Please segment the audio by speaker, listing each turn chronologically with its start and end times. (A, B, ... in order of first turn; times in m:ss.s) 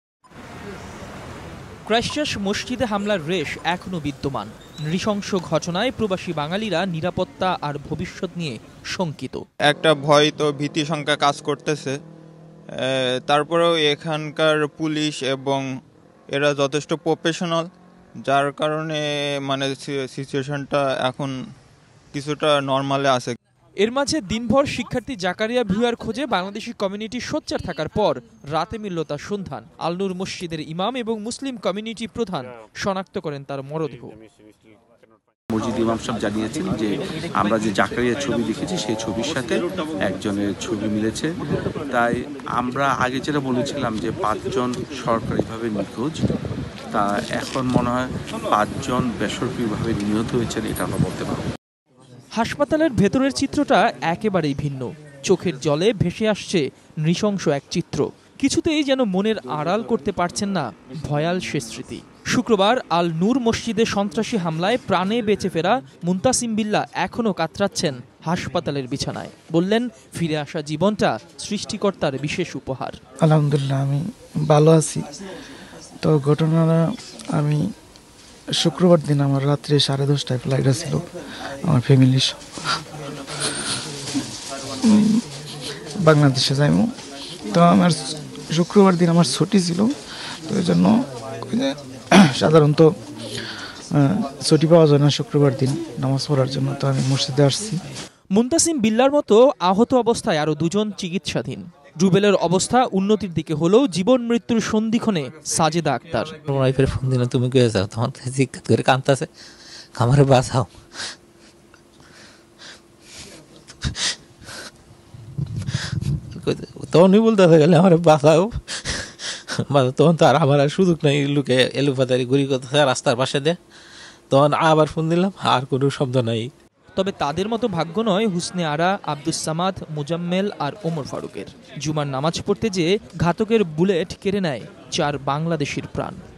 0:01.8-0:09.4 A
0:09.7-0:12.0 B
0:12.8-0:15.6 B
0:16.3-0:17.7 B
0:18.3-0:21.3 B
0:22.1-0:23.4 B
0:23.8-0:34.1 A
0:35.7-0:36.8 C
0:37.4-0:39.5 C
0:40.1-0:41.2 C
0:41.9-0:46.1 C
0:46.9-0:51.4 C
0:52.4-1:13.0 A
1:13.3-1:15.0 D
1:16.0-1:16.8 D
1:18.6-1:21.0 D
1:21.7-1:22.4 D
1:24.8-1:25.2 D
1:26.0-1:26.9 D
1:27.5-1:29.9 D
1:30.5-1:30.9 D
1:32.4-1:32.8 D
1:34.0-1:37.8 D
1:38.3-1:46.4 A
1:46.5-1:49.3 E
1:50.0-1:50.7 E
1:56.4-1:59.1 E
1:59.7-2:03.6 E
2:04.3-2:06.5 E
2:07.0-2:16.2 A